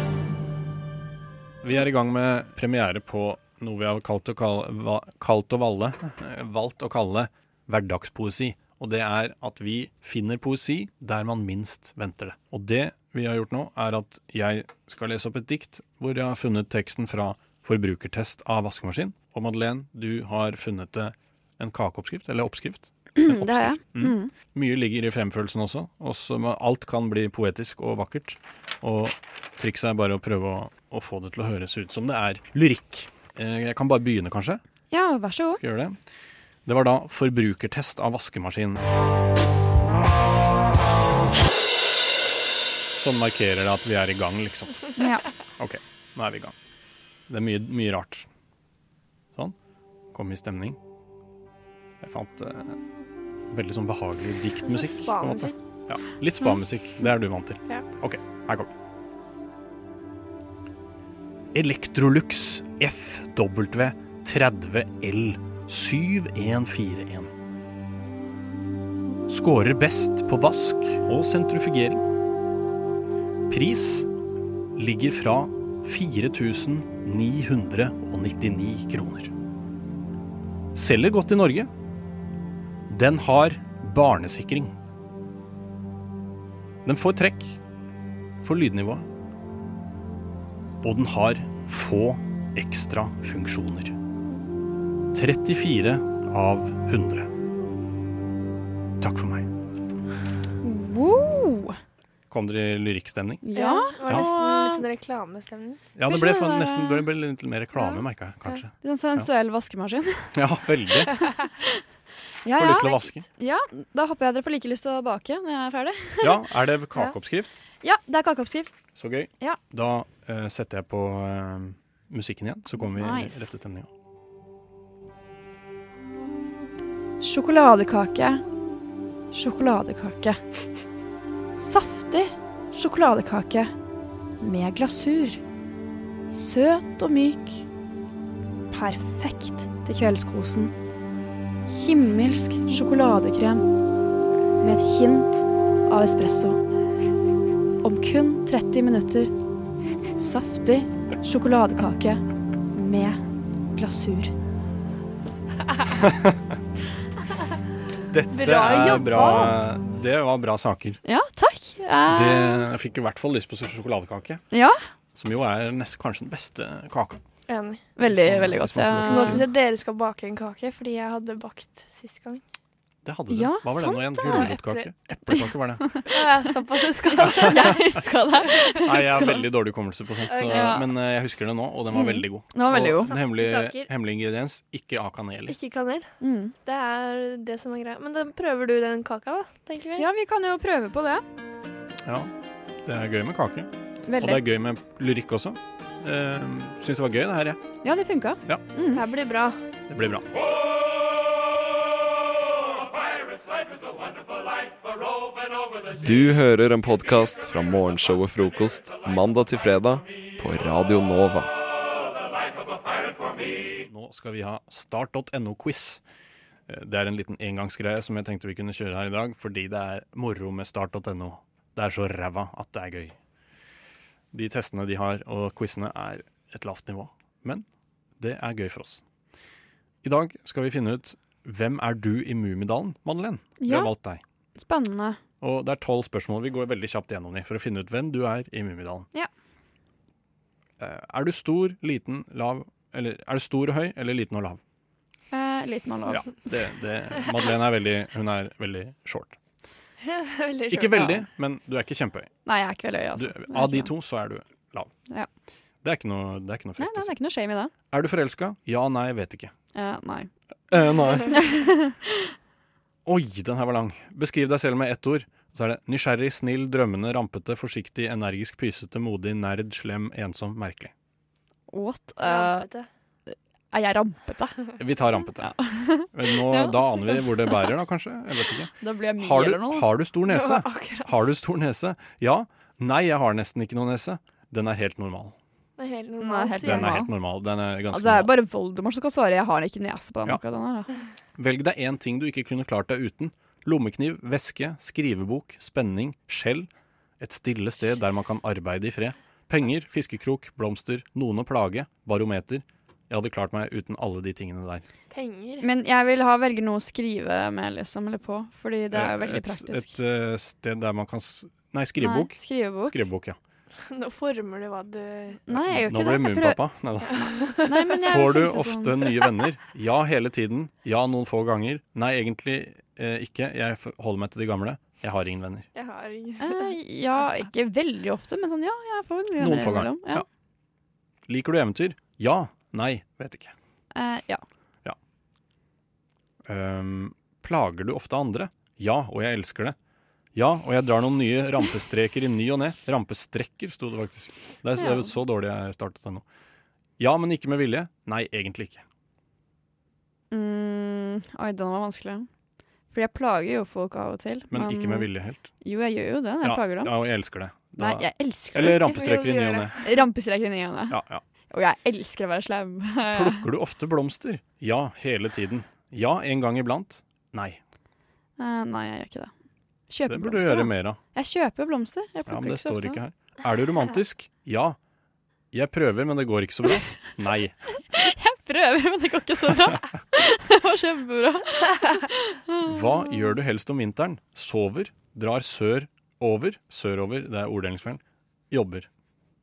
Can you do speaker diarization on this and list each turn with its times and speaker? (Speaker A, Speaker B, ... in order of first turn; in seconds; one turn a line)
Speaker A: 1.6-34.6
Speaker B: 23.2-24.3
Speaker B: 34.9-35.6
Speaker A: 35.6-36.0
Speaker A: 36.7-38.8
Speaker A: 43.0-44.8
Speaker B: 45.0-45.3
Speaker A: 45.6-46.5
Speaker A: 47.3-48.3
Speaker A: 50.1-50.8
Speaker A: 52.0-52.8
Speaker A: 53.5-58.7
Speaker C: 54.6-55.5
Speaker A: 61.5-67.3
Speaker A: 69.3-72.0
Speaker A: 73.5-74.1
Speaker A: 74.8-79.3
Speaker A: 80.7-81.7
Speaker A: 82.9-84.8
Speaker A: 86.8-87.6
Speaker A: 88.4-89.1
Speaker A: 90.8-94.0
Speaker A: 95.1-97.3
Speaker A: 99.0-99.5
Speaker B: 100.6-101.8
Speaker A: 102.3-103.4
Speaker B: 103.4-104.8
Speaker C: 103.5-105.8
Speaker A: 106.0-109.3
Speaker B: 106.1-107.0
Speaker B: 107.8-108.0
Speaker B: 108.8-110.3
Speaker A: 110.3-111.2
Speaker B: 111.0-111.7
Speaker B: 112.5-116.4
Speaker A: 112.5-113.2
Speaker A: 116.2-117.5
Speaker B: 117.8-118.7
Speaker A: 119.0-123.9
Speaker B: 122.8-123.5
Speaker B: 127.2-128.4
Speaker B: 129.3-130.4
Speaker B: 131.6-133.7
Speaker B: 134.4-135.4
Speaker B: 136.3-137.7
Speaker B: 138.7-140.7
Speaker B: 141.7-143.7
Speaker B: 144.6-146.6
Speaker B: 147.8-149.3
Speaker B: 150.2-153.2
Speaker B: 153.8-154.3
Speaker A: 155.9-156.4
Speaker A: 158.1-161.0
Speaker C: 158.3-159.5
Speaker B: 158.9-159.4
Speaker B: 161.1-162.7
Speaker A: 162.1-164.4
Speaker B: 164.5-164.8
Speaker A: 165.2-167.2
Speaker C: 167.5-167.9
Speaker B: 168.0-169.5
Speaker A: 168.1-169.5
Speaker C: 169.1-172.4
Speaker A: 173.0-176.0
Speaker B: 173.3-174.6
Speaker C: 174.2-174.9
Speaker B: 175.3-176.5
Speaker C: 176.1-177.8
Speaker B: 177.2-179.4
Speaker A: 177.3-177.7
Speaker A: 178.8-185.6
Speaker C: 180.3-180.8
Speaker B: 180.4-180.9
Speaker B: 181.9-183.1
Speaker C: 182.8-183.9
Speaker C: 185.5-186.1
Speaker B: 186.2-186.5
Speaker C: 186.7-190.1
Speaker B: 190.0-191.2
Speaker A: 192.1-192.3
Speaker A: 192.8-197.6
Speaker B: 194.1-194.4
Speaker B: 197.8-199.0
Speaker C: 198.9-199.6
Speaker A: 199.9-200.3
Speaker D: 206.0-211.5
Speaker A: 213.8-216.0
Speaker A: 216.7-223.2
Speaker A: 224.3-227.7
Speaker A: 228.2-229.0
Speaker A: 230.0-234.2
Speaker B: 233.6-233.9
Speaker B: 234.6-235.2
Speaker A: 235.4-239.1
Speaker A: 240.8-244.6
Speaker B: 245.3-246.3
Speaker A: 246.1-249.4
Speaker C: 250.0-251.2
Speaker A: 250.7-252.3
Speaker B: 252.5-253.9
Speaker A: 253.2-254.9
Speaker A: 255.8-257.1
Speaker B: 256.8-257.7
Speaker A: 257.9-259.5
Speaker B: 259.7-260.3
Speaker A: 260.7-261.4
Speaker B: 261.3-262.3
Speaker A: 263.1-270.9
Speaker B: 271.7-272.7
Speaker C: 272.2-272.9
Speaker B: 273.3-274.7
Speaker A: 274.8-275.5
Speaker B: 275.4-277.7
Speaker A: 276.1-285.4
Speaker B: 278.8-279.9
Speaker C: 280.3-281.1
Speaker C: 285.8-287.0
Speaker B: 286.2-287.1
Speaker A: 286.6-288.3
Speaker B: 287.9-290.9
Speaker A: 291.4-296.7
Speaker A: 297.2-304.9
Speaker C: 305.1-305.7
Speaker B: 305.6-309.9
Speaker A: 308.9-313.4
Speaker B: 312.0-313.0
Speaker C: 313.9-315.4
Speaker B: 315.5-316.6
Speaker A: 315.5-325.7
Speaker C: 317.3-317.7
Speaker B: 317.6-319.1
Speaker C: 325.7-326.7
Speaker B: 326.4-330.2
Speaker A: 329.4-330.3
Speaker A: 331.3-333.5
Speaker B: 333.9-334.4
Speaker A: 336.4-339.8
Speaker A: 340.3-346.2
Speaker B: 344.8-345.1
Speaker A: 347.0-348.8
Speaker B: 350.3-352.3
Speaker B: 352.9-355.1
Speaker A: 354.5-355.5
Speaker B: 355.6-356.9
Speaker A: 356.4-359.8
Speaker B: 357.8-359.3
Speaker C: 358.7-359.9
Speaker B: 359.8-361.0
Speaker A: 360.9-361.2
Speaker B: 361.5-363.5
Speaker A: 363.1-367.6
Speaker B: 368.4-369.3
Speaker B: 369.9-373.0
Speaker A: 370.1-371.0
Speaker A: 372.3-374.8
Speaker A: 375.5-377.6
Speaker B: 377.9-382.9
Speaker A: 382.6-388.9